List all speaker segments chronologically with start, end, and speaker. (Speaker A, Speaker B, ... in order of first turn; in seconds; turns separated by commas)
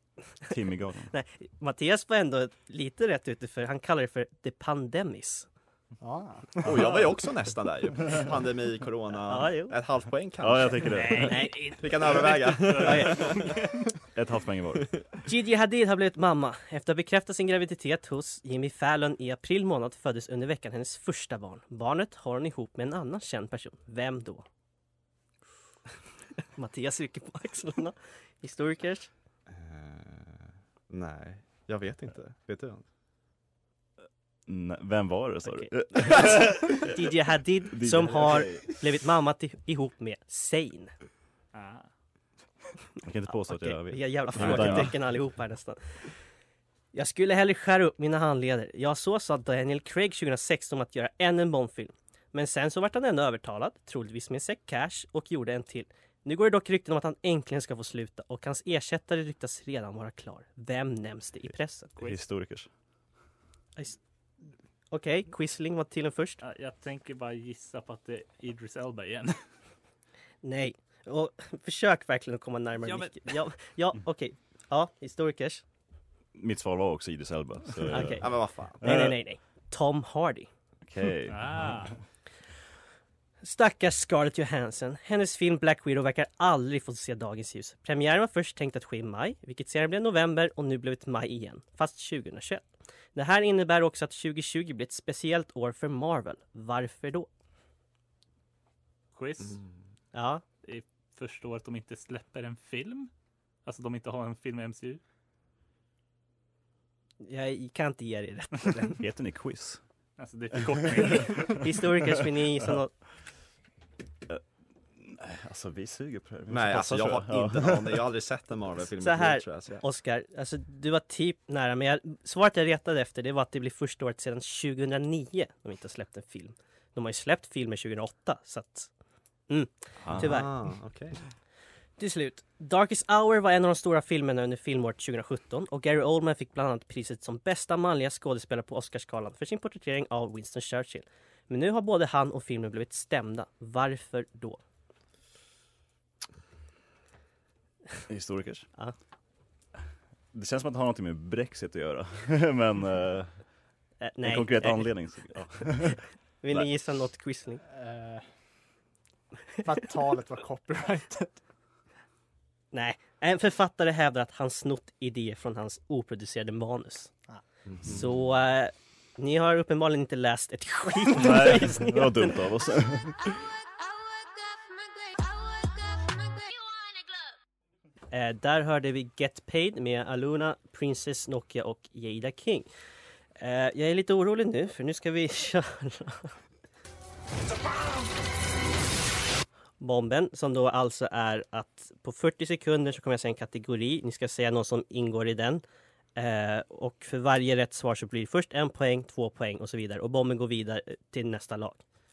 Speaker A: 0.5-1.1, Speaker B: 1.1-5.5, Speaker C: 6.0-6.7, Speaker D: 6.6-11.1, Speaker B: 9.2-9.8, Speaker A: 10.4-11.5, Speaker E: 11.1-13.6, Speaker B: 11.2-11.8, Speaker D: 11.8-13.4, Speaker B: 12.8-13.2, Speaker A: 14.2-14.9, Speaker B: 15.3-24.4, Speaker B: 26.6-29.1, Speaker D: 29.5-32.8, Speaker A: 34.5-36.9, Speaker B: 35.5-40.9, Speaker A: 37.7-38.7, Speaker E: 41.5-41.9, Speaker A: 43.0-45.0, Speaker B: 43.3-45.8, Speaker B: 46.9-61.9, Speaker A: 62.0-62.7, Speaker B: 64.9-66.4, Speaker E: 66.4-69.4, Speaker B: 70.4-75.6, Speaker E: 72.8-73.1, Speaker A: 76.3-79.2, Speaker B: 77.9-80.5, Speaker D: 78.2-78.8, Speaker A: 80.9-81.8, Speaker E: 81.3-81.9, Speaker B: 83.4-97.3, Speaker E: 99.2-99.6, Speaker B: 100.1-100.4, Speaker E: 100.6-103.1, Speaker E: 103.7-105.0, Speaker B: 107.2-109.0, Speaker A: 109.0-109.8, Speaker E: 110.2-111.6, Speaker B: 111.5-112.9, Speaker A: 115.0-118.0, Speaker D: 116.5-119.8, Speaker B: 119.0-128.9, Speaker B: 129.5-130.5, Speaker A: 130.0-130.3, Speaker D: 130.2-131.2, Speaker B: 132.0-144.6, Speaker A: 148.1-148.7, Speaker A: 150.3-153.3, Speaker B: 154.0-154.9, Speaker A: 154.2-156.7, Speaker B: 155.6-157.6, Speaker C: 157.7-158.2, Speaker C: 159.6-161.4, Speaker B: 162.7-167.1, Speaker D: 167.7-168.0, Speaker B: 167.8-172.3, Speaker A: 171.1-173.4, Speaker B: 178.1-182.7, Speaker B: 183.4-186.3, Speaker B: 189.8-195.6, Speaker B: 196.2-201.8